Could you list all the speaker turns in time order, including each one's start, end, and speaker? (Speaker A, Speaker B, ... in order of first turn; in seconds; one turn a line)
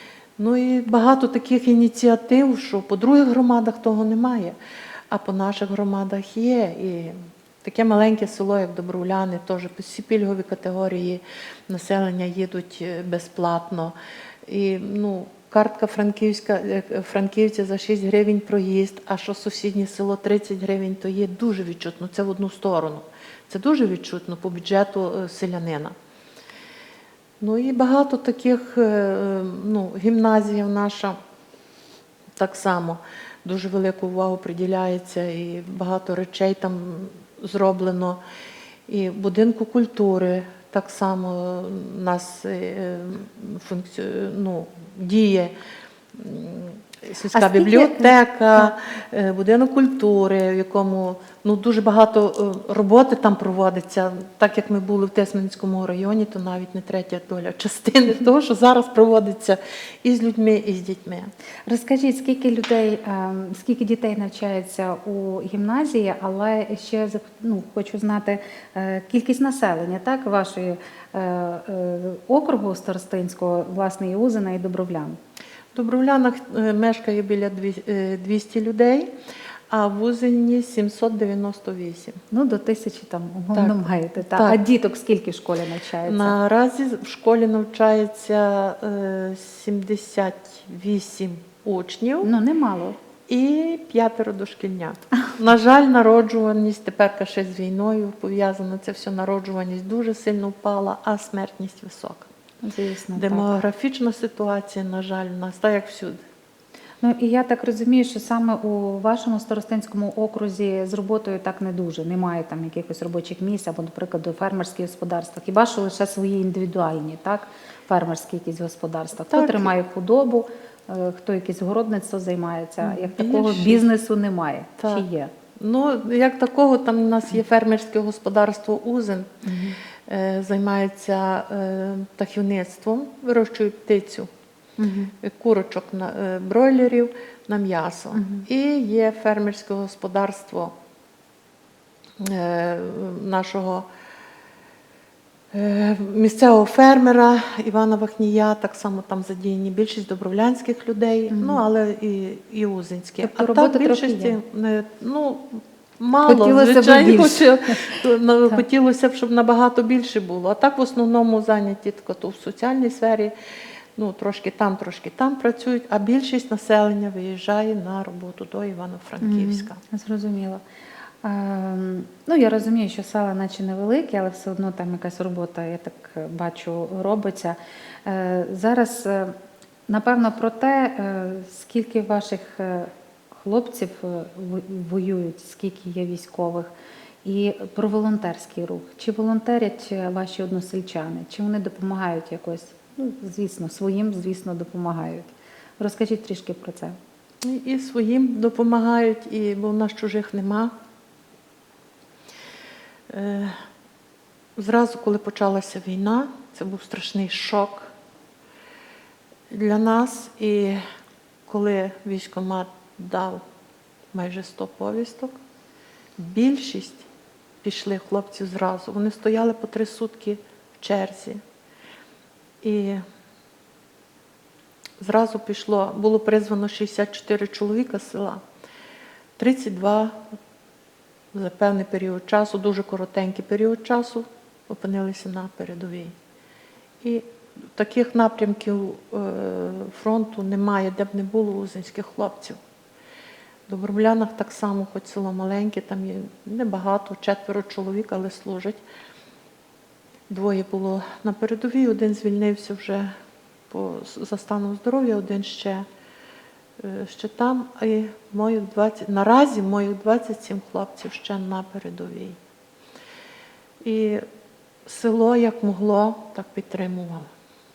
Speaker A: 0.4-4.5
Speaker A: 5.1-13.9
Speaker A: 14.5-25.9
Speaker A: 27.4-31.1
Speaker A: 32.4-38.2
Speaker A: 38.9-45.5
Speaker A: 46.1-61.3
Speaker B: 47.3-48.7
Speaker B: 61.7-75.2
Speaker A: 75.7-79.1
Speaker A: 79.7-82.2
Speaker B: 82.3-86.3
Speaker A: 83.5-84.6
Speaker A: 86.0-92.3
Speaker B: 92.2-93.0
Speaker A: 93.3-102.3
Speaker B: 102.6-103.5
Speaker A: 103.1-106.2
Speaker B: 107.0-125.3
Speaker A: 119.2-119.7
Speaker A: 122.8-123.8
Speaker A: 124.8-125.0
Speaker A: 125.6-129.3
Speaker B: 129.4-129.8
Speaker A: 130.1-134.3
Speaker B: 134.8-135.1
Speaker A: 135.2-140.7
Speaker B: 138.1-138.4
Speaker A: 142.2-143.8
Speaker A: 145.5-163.3
Speaker B: 151.3-151.6
Speaker B: 153.2-154.4
Speaker B: 156.2-158.6
Speaker A: 164.0-169.8
Speaker B: 169.2-170.6
Speaker B: 171.2-179.3
Speaker B: 179.9-186.7
Speaker B: 187.2-196.9
Speaker A: 197.4-200.7
Speaker A: 203.1-203.5
Speaker A: 204.6-207.9
Speaker A: 209.5-210.8
Speaker A: 211.5-213.4
Speaker A: 214.1-215.3
Speaker A: 216.2-217.1
Speaker A: 217.6-221.4
Speaker A: 222.6-223.0
Speaker A: 225.0-228.4
Speaker A: 229.4-230.2
Speaker A: 231.3-236.1
Speaker A: 237.0-242.6
Speaker A: 243.7-248.8
Speaker A: 250.3-253.1
Speaker A: 253.7-255.8
Speaker A: 256.8-262.4
Speaker A: 263.8-264.2
Speaker A: 264.9-267.3